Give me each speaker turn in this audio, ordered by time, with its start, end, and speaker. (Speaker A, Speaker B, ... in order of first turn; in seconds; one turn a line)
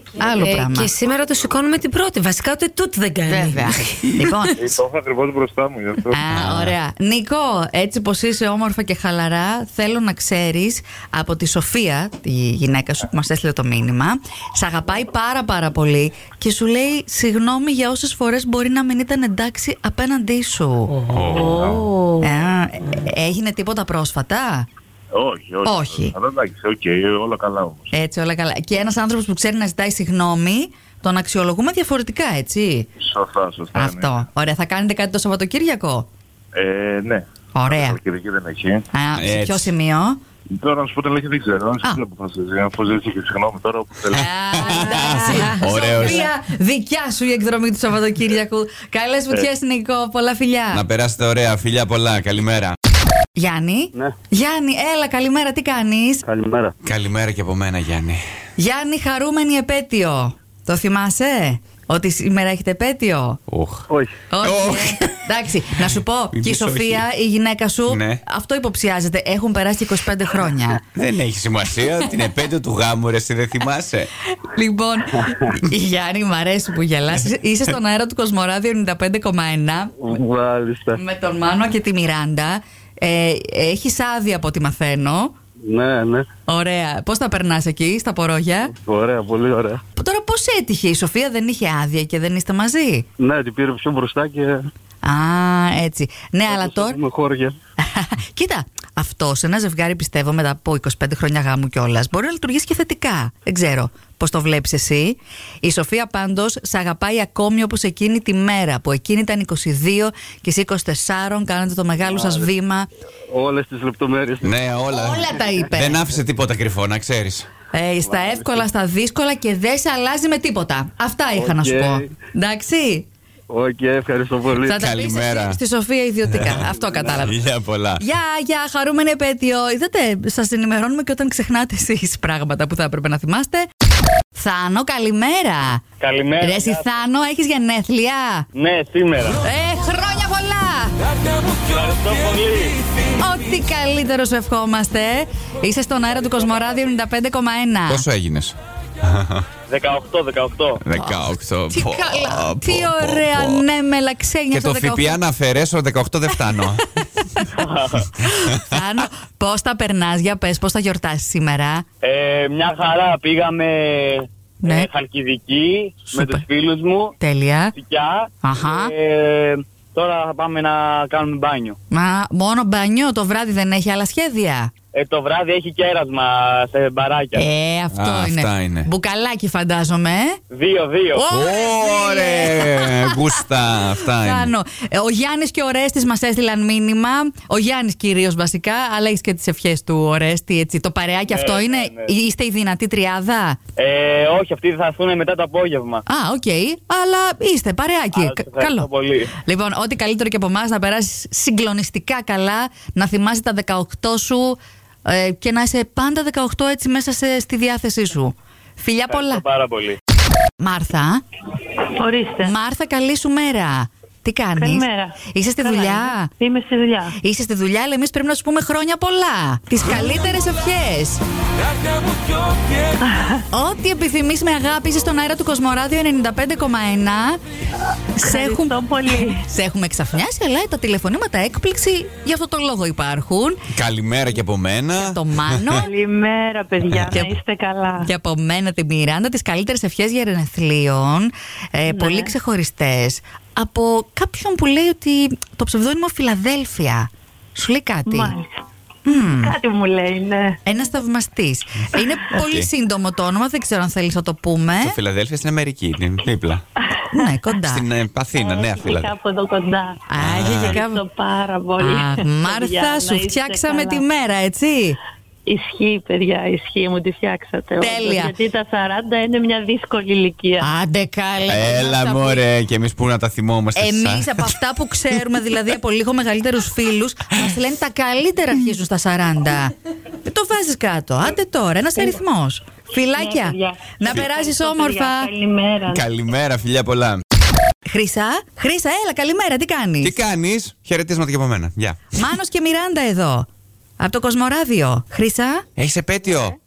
Speaker A: 0.2-4.5
Speaker B: 0.2-0.9
Speaker B: 3.3-4.8
Speaker C: 4.5-6.2
Speaker B: 6.1-21.1
Speaker D: 6.3-6.7
Speaker D: 21.1-21.6
Speaker A: 21.1-22.3
Speaker B: 22.2-24.7
Speaker C: 25.1-27.9
Speaker B: 25.6-26.1
Speaker B: 27.9-32.9
Speaker C: 33.0-34.2
Speaker B: 33.7-36.1
Speaker C: 36.5-38.9
Speaker B: 37.5-38.0
Speaker B: 38.9-40.2
Speaker D: 39.1-39.7
Speaker C: 40.5-44.8
Speaker B: 44.1-50.8
Speaker D: 44.5-46.3
Speaker D: 50.7-52.8
Speaker B: 53.4-56.2
Speaker E: 56.2-56.7
Speaker D: 56.8-58.2
Speaker B: 58.6-63.4
Speaker D: 63.5-63.9
Speaker E: 63.9-64.1
Speaker B: 64.3-70.8
Speaker D: 64.4-65.3
Speaker D: 66.3-67.1
Speaker D: 67.9-68.2
Speaker D: 70.9-74.1
Speaker B: 74.3-80.1
Speaker E: 80.0-81.0
Speaker B: 80.9-85.3
Speaker E: 85.6-86.2
Speaker B: 86.5-88.7
Speaker E: 88.7-89.8
Speaker B: 90.0-93.0
Speaker E: 93.2-94.7
Speaker B: 95.0-97.0
Speaker E: 96.5-97.5
Speaker B: 97.8-112.9
Speaker E: 112.1-112.5
Speaker E: 113.3-114.5
Speaker D: 114.4-117.5
Speaker B: 114.9-116.0
Speaker B: 117.7-123.1
Speaker E: 118.0-118.6
Speaker E: 121.3-122.1
Speaker E: 123.5-124.8
Speaker B: 124.6-127.4
Speaker D: 124.8-125.6
Speaker D: 126.3-126.7
Speaker E: 126.7-127.2
Speaker D: 127.2-128.0
Speaker B: 128.0-133.7
Speaker B: 134.3-135.8
Speaker F: 136.0-136.9
Speaker B: 136.4-138.5
Speaker F: 138.5-139.4
Speaker B: 139.4-140.9
Speaker F: 141.7-142.8
Speaker B: 143.2-148.0
Speaker D: 147.9-149.4
Speaker F: 149.7-150.8
Speaker D: 150.8-153.7
Speaker B: 150.9-155.2
Speaker D: 154.5-156.9
Speaker B: 157.2-157.5
Speaker F: 157.5-158.2
Speaker B: 158.2-161.8
Speaker D: 158.4-158.8
Speaker F: 162.0-167.2
Speaker B: 164.6-164.9
Speaker B: 166.1-166.4
Speaker B: 167.2-167.7
Speaker F: 167.7-171.8
Speaker B: 168.4-168.9
Speaker B: 171.9-174.7
Speaker F: 174.9-177.4
Speaker B: 177.3-180.4
Speaker D: 177.9-178.9
Speaker F: 180.5-181.2
Speaker B: 181.1-183.2
Speaker D: 181.3-184.5
Speaker B: 184.1-193.6
Speaker F: 191.3-192.1
Speaker F: 193.8-196.0
Speaker B: 196.1-198.9
Speaker F: 198.1-199.3
Speaker B: 199.4-209.4
Speaker F: 209.1-210.0
Speaker B: 210.6-211.2
Speaker G: 212.0-212.5
Speaker B: 212.4-216.3
Speaker G: 214.5-217.2
Speaker B: 217.2-221.2
Speaker G: 223.0-223.4
Speaker B: 223.5-227.4
Speaker B: 228.2-228.8
Speaker G: 228.2-229.4
Speaker B: 229.4-233.6
Speaker D: 233.7-235.6
Speaker B: 235.0-235.9
Speaker G: 235.8-238.1
Speaker B: 238.0-248.3
Speaker G: 241.9-242.3
Speaker G: 248.1-248.5
Speaker B: 249.1-249.6
Speaker G: 249.1-250.6
Speaker B: 250.7-255.0
Speaker D: 252.3-252.7
Speaker D: 254.8-256.6
Speaker B: 257.1-257.8
Speaker D: 257.6-259.1
Speaker G: 258.3-264.1
Speaker B: 260.1-261.0
Speaker D: 260.1-260.8
Speaker B: 261.8-265.0
Speaker G: 265.4-270.7
Speaker B: 267.8-268.3
Speaker B: 270.6-272.4
Speaker D: 271.4-274.6
Speaker B: 273.8-285.3
Speaker D: 275.1-275.6
Speaker G: 283.1-286.0
Speaker D: 285.9-287.2
Speaker B: 287.9-290.1
Speaker D: 290.0-292.1
Speaker B: 292.1-293.5
Speaker B: 294.0-295.6
Speaker D: 295.8-296.6